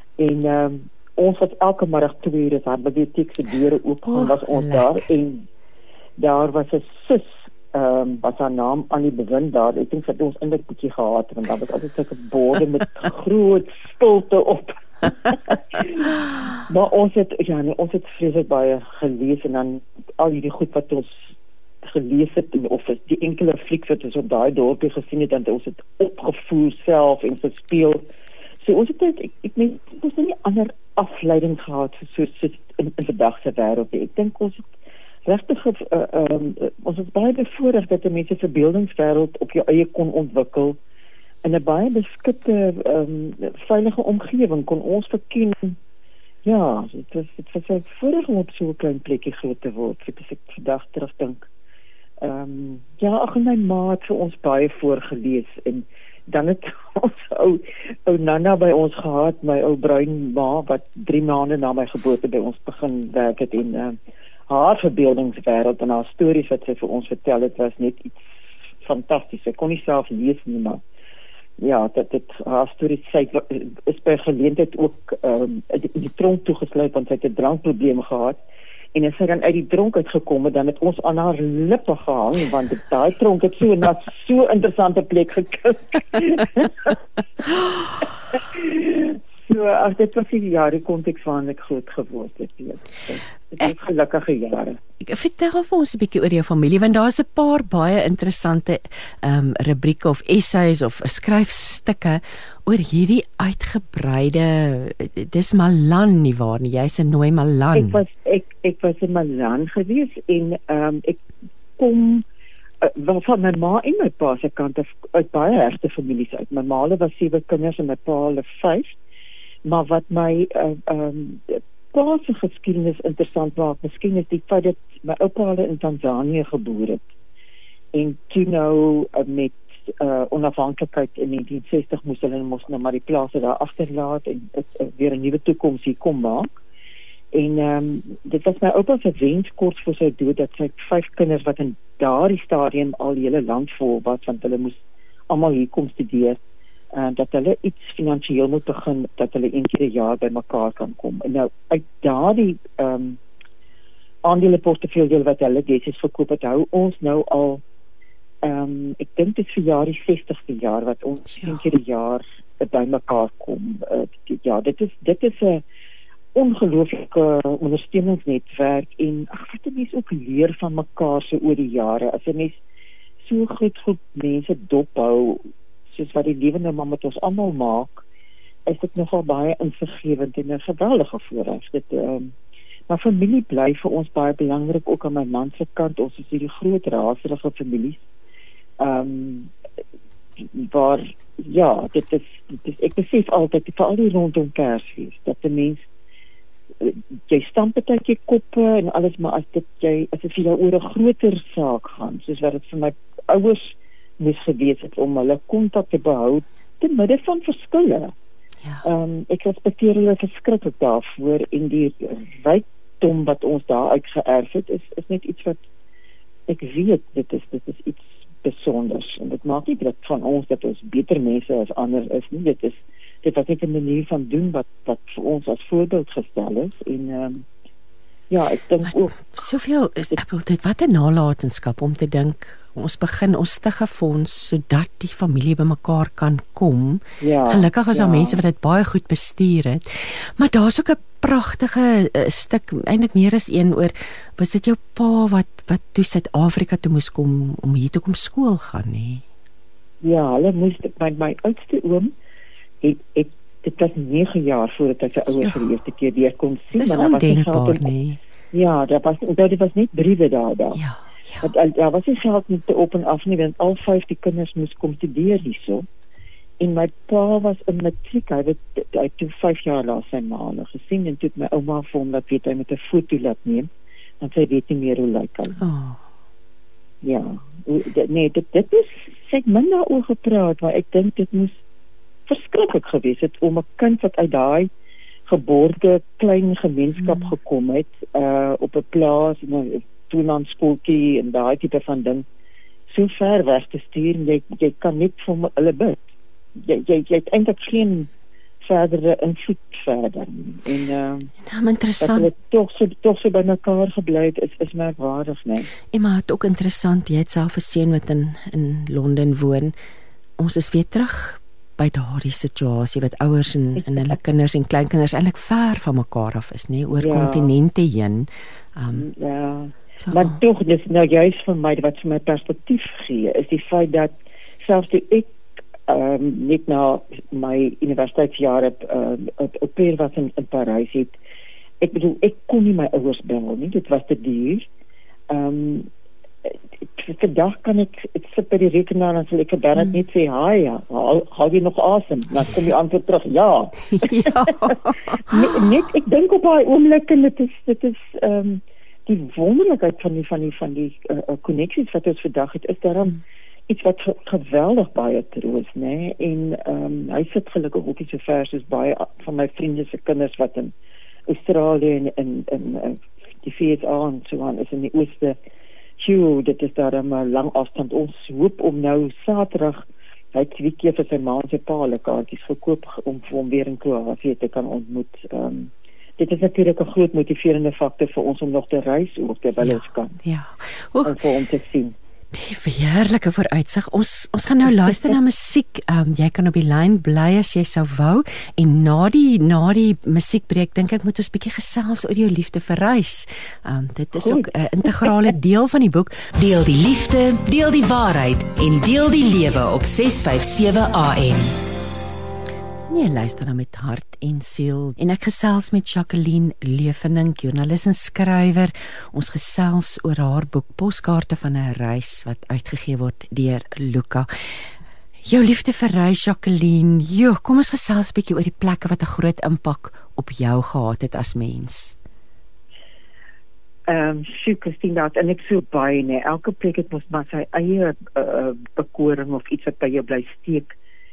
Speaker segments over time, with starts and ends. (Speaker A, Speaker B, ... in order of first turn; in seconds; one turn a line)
Speaker A: 0.2-5.4
Speaker B: 4.1-5.0
Speaker A: 6.2-28.1
Speaker A: 28.6-34.7
Speaker A: 35.3-40.8
Speaker A: 41.4-45.8
Speaker A: 46.5-51.5
Speaker A: 52.2-64.0
Speaker A: 64.5-68.3
Speaker A: 68.8-70.8
Speaker A: 71.6-78.4
Speaker A: 78.9-86.9
Speaker A: 88.3-94.8
Speaker B: 95.0-108.0
Speaker A: 107.8-111.2
Speaker A: 111.8-112.2
Speaker A: 112.8-119.0
Speaker A: 119.7-127.0
Speaker A: 127.9-136.5
Speaker A: 137.3-144.8
Speaker A: 145.3-146.4
Speaker A: 146.9-153.2
Speaker A: 154.2-157.6
Speaker A: 158.4-165.6
Speaker A: 166.3-172.6
Speaker A: 173.2-178.0
Speaker A: 178.7-182.3
Speaker A: 182.9-188.0
Speaker A: 188.8-189.5
Speaker A: 190.4-195.9
Speaker A: 196.8-208.1
Speaker A: 208.8-215.6
Speaker A: 216.5-227.4
Speaker A: 228.3-229.4
Speaker B: 228.9-249.2
Speaker A: 237.2-238.4
Speaker A: 250.0-252.1
Speaker A: 252.8-257.9
Speaker B: 256.8-258.2
Speaker A: 258.5-260.8
Speaker B: 260.8-261.5
Speaker A: 261.4-265.9
Speaker A: 266.6-273.7
Speaker A: 274.2-275.6
Speaker B: 275.6-276.0
Speaker A: 277.0-281.6
Speaker A: 282.3-284.7
Speaker A: 285.3-292.2
Speaker B: 287.0-287.4
Speaker A: 292.9-296.0
Speaker A: 296.6-298.1
Speaker A: 298.6-301.3
Speaker B: 301.4-302.3
Speaker A: 302.0-305.7
Speaker B: 305.9-309.7
Speaker B: 310.4-319.1
Speaker A: 317.0-317.5
Speaker A: 318.9-325.3
Speaker B: 320.1-320.4
Speaker A: 325.9-331.2
Speaker A: 331.8-334.6
Speaker A: 335.3-335.9
Speaker A: 336.4-360.7
Speaker B: 344.0-345.6
Speaker A: 361.3-365.4
Speaker A: 366.0-380.2
Speaker B: 379.6-381.2
Speaker A: 381.0-381.9
Speaker B: 382.3-396.3
Speaker C: 396.4-401.6
Speaker B: 402.9-414.3
Speaker B: 415.2-421.9
Speaker A: 423.9-430.7